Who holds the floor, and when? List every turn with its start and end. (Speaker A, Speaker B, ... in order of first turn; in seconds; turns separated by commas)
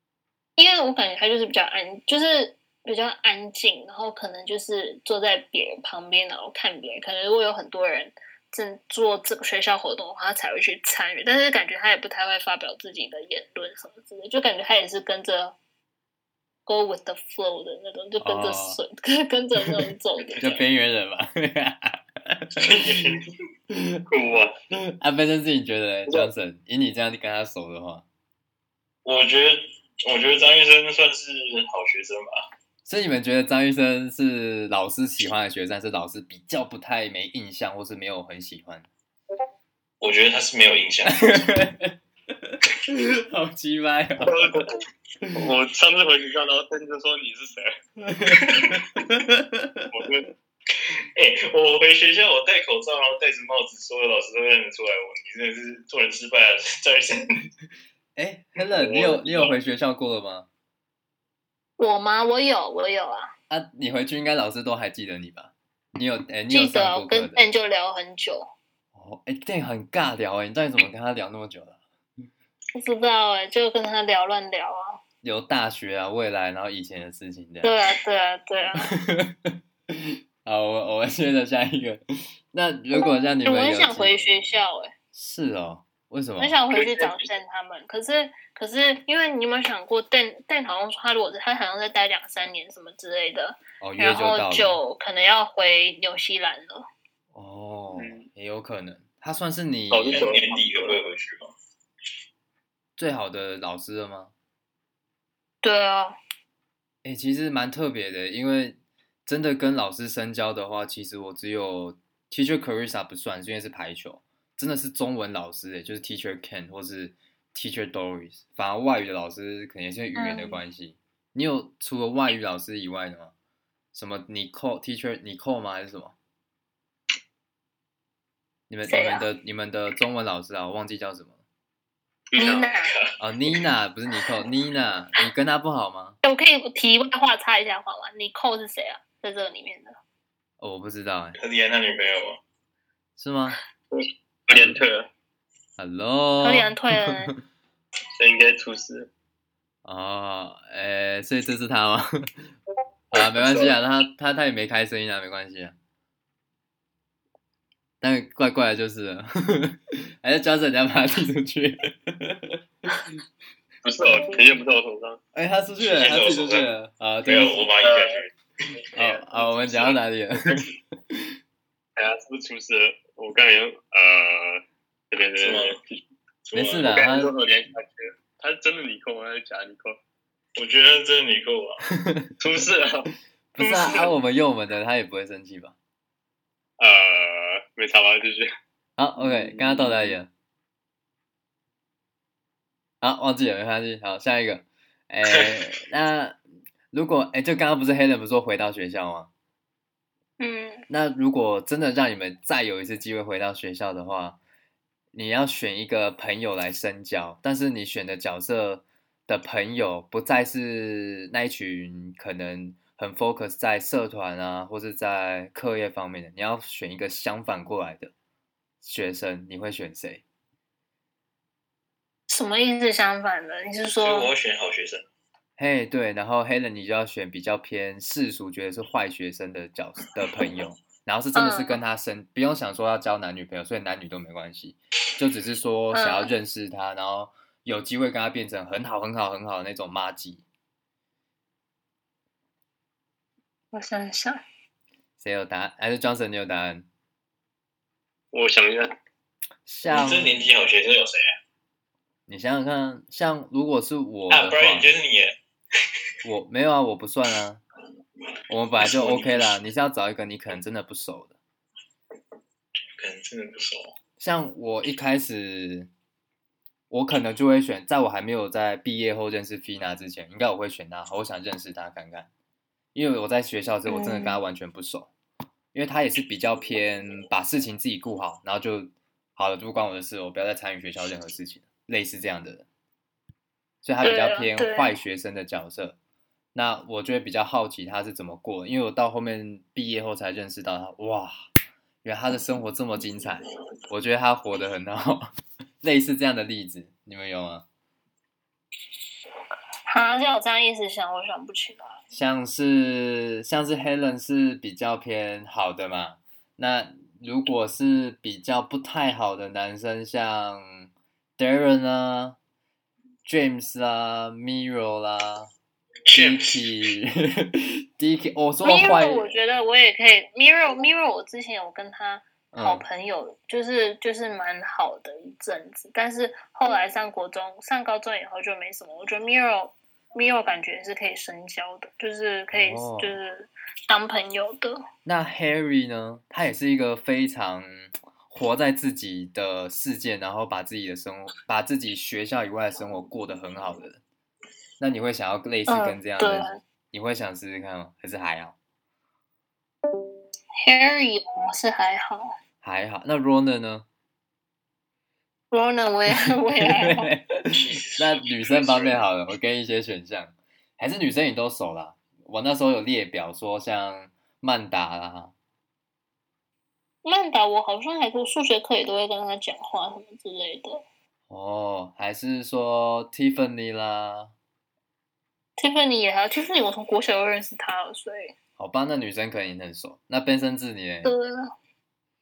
Speaker A: 0.6-15.6, Speaker A: 16.7-20.6, Speaker B: 18.2-18.8, Speaker B: 20.4-23.1, Speaker C: 22.6-23.2, Speaker B: 23.7-24.0, Speaker D: 24.1-24.6, Speaker B: 24.7-28.1, Speaker C: 29.0-32.3, Speaker B: 32.9-38.9, Speaker C: 40.0-41.6, Speaker B: 41.1-44.7, Speaker D: 44.2-44.8, Speaker D: 45.4-47.7, Speaker B: 48.1-49.9, Speaker C: 48.3-48.8, Speaker D: 49.9-50.3, Speaker C: 51.1-57.2, Speaker B: 58.2-60.5, Speaker D: 58.8-59.5, Speaker A: 61.8-63.3, Speaker B: 63.5-67.5, Speaker A: 66.5-68.5, Speaker B: 69.0-71.8, Speaker A: 72.8-75.0, Speaker B: 75.2-77.8, Speaker A: 77.6-78.9, Speaker B: 78.8-82.0, Speaker B: 82.5-84.3, Speaker A: 83.0-84.9, Speaker B: 85.1-86.6, Speaker A: 86.4-96.9, Speaker D: 86.7-87.3, Speaker B: 93.8-94.8, Speaker B: 97.3-100.3, Speaker D: 98.0-98.3, Speaker D: 99.9-101.0, Speaker C: 100.1-101.5, Speaker B: 103.0-104.3, Speaker A: 105.6-106.2, Speaker B: 107.0-123.3, Speaker A: 120.2-120.6, Speaker B: 123.9-126.2, Speaker B: 128.7-131.4, Speaker A: 128.9-129.3, Speaker D: 132.3-132.7, Speaker A: 132.4-132.9, Speaker C: 132.8-133.1, Speaker B: 133.2-136.2, Speaker A: 136.2-139.9, Speaker B: 140.6-141.4, Speaker C: 141.4-142.4, Speaker B: 143.2-143.6, Speaker D: 143.9-145.1, Speaker B: 144.5-144.8, Speaker B: 145.8-147.2, Speaker A: 146.4-147.3, Speaker D: 148.2-149.1, Speaker B: 149.8-152.3, Speaker B: 153.1-155.8, Speaker D: 153.4-153.7, Speaker B: 158.0-162.6, Speaker D: 163.8-165.2, Speaker B: 165.3-167.6, Speaker C: 165.8-166.7, Speaker C: 167.2-168.3, Speaker D: 167.8-168.2, Speaker D: 168.8-170.7, Speaker B: 168.9-171.3, Speaker D: 172.0-176.0, Speaker C: 175.4-175.8, Speaker C: 176.5-177.1, Speaker B: 176.5-177.3, Speaker D: 176.8-180.0, Speaker C: 180.6-181.8, Speaker B: 182.0-182.3, Speaker D: 182.4-183.1, Speaker B: 183.6-185.8, Speaker D: 183.6-184.0, Speaker D: 186.8-188.5, Speaker B: 189.0-190.3, Speaker D: 189.2-190.2, Speaker B: 193.0-196.4, Speaker B: 196.9-199.3, Speaker A: 200.4-200.8, Speaker B: 200.9-204.4, Speaker B: 205.1-218.1, Speaker B: 218.8-220.2, Speaker A: 222.3-224.3, Speaker C: 224.0-225.1, Speaker B: 225.6-240.4, Speaker A: 231.3-231.8, Speaker A: 235.9-236.3, Speaker A: 243.7-244.4, Speaker B: 245.2-246.9, Speaker D: 248.3-248.9, Speaker B: 249.7-250.4, Speaker C: 249.9-251.3, Speaker B: 252.3-254.9, Speaker C: 254.3-255.3, Speaker B: 256.2-257.6, Speaker B: 258.5-261.4, Speaker C: 258.8-259.6, Speaker C: 263.0-263.9, Speaker B: 264.2-265.9, Speaker B: 266.9-272.3, Speaker B: 272.9-275.1, Speaker A: 273.9-274.4, Speaker B: 275.7-282.7, Speaker B: 283.8-286.0, Speaker A: 284.0-284.9, Speaker B: 286.5-291.4, Speaker B: 292.0-295.3, Speaker B: 295.8-297.6, Speaker A: 299.9-302.0, Speaker B: 302.1-312.4, Speaker B: 313.3-315.5, Speaker C: 316.1-316.7, Speaker B: 316.1-319.4, Speaker A: 318.6-334.9, Speaker B: 322.5-322.9, Speaker B: 332.5-333.2, Speaker B: 335.1-344.0, Speaker B: 344.8-348.6, Speaker A: 345.7-346.6, Speaker A: 350.6-352.4, Speaker B: 352.6-353.9, Speaker A: 355.5-357.1, Speaker B: 356.1-365.3, Speaker C: 357.5-359.0, Speaker A: 367.0-370.8, Speaker B: 371.3-374.3, Speaker A: 375.6-378.4, Speaker B: 378.6-381.1, Speaker A: 381.0-381.5